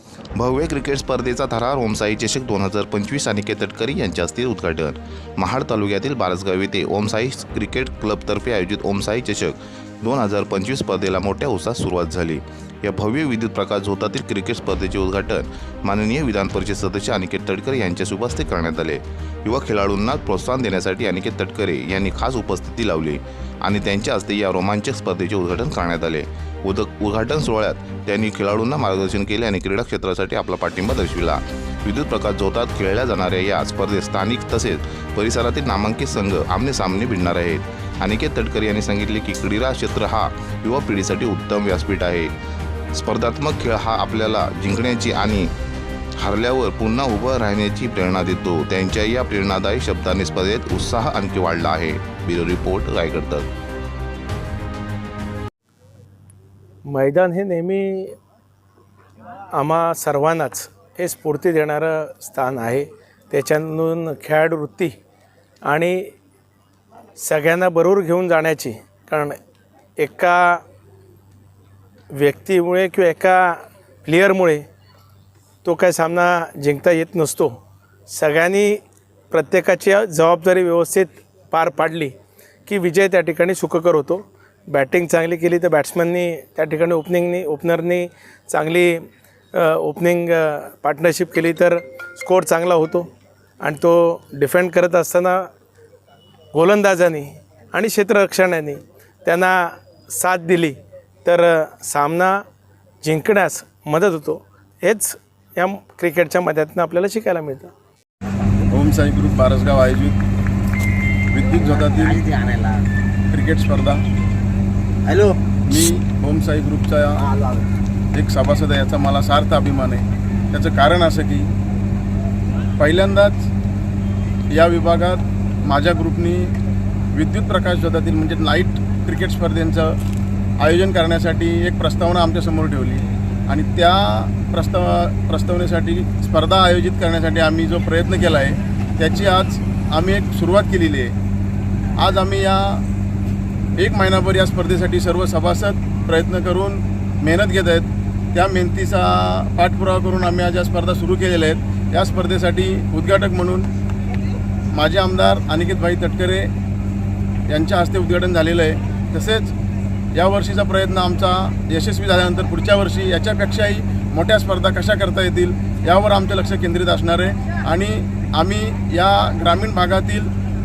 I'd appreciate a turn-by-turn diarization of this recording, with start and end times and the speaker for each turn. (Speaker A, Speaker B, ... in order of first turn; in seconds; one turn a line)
Speaker A: 0.4-42.3
Speaker A: 42.9-45.5
Speaker A: 46.2-53.5
Speaker B: 56.9-58.2
Speaker B: 59.5-65.0
Speaker B: 65.7-66.1
Speaker B: 67.2-69.4
Speaker B: 70.0-70.6
Speaker B: 72.1-74.7
Speaker B: 75.6-77.6
Speaker B: 78.1-82.2
Speaker B: 82.7-93.1
Speaker B: 93.6-95.5
Speaker B: 96.5-102.4
Speaker B: 103.0-107.7
Speaker C: 108.7-110.2
Speaker C: 111.3-112.3
Speaker D: 111.6-112.8
Speaker C: 113.3-114.0
Speaker D: 115.1-115.4
Speaker C: 115.7-117.2
Speaker D: 117.2-117.7
Speaker C: 118.1-121.5
Speaker C: 122.8-123.5
Speaker C: 124.5-126.5
Speaker C: 127.1-130.0
Speaker C: 130.6-141.1
Speaker C: 142.0-142.8
Speaker C: 143.8-153.7
Speaker C: 154.7-156.5
Speaker C: 157.5-159.5
Speaker C: 160.2-170.3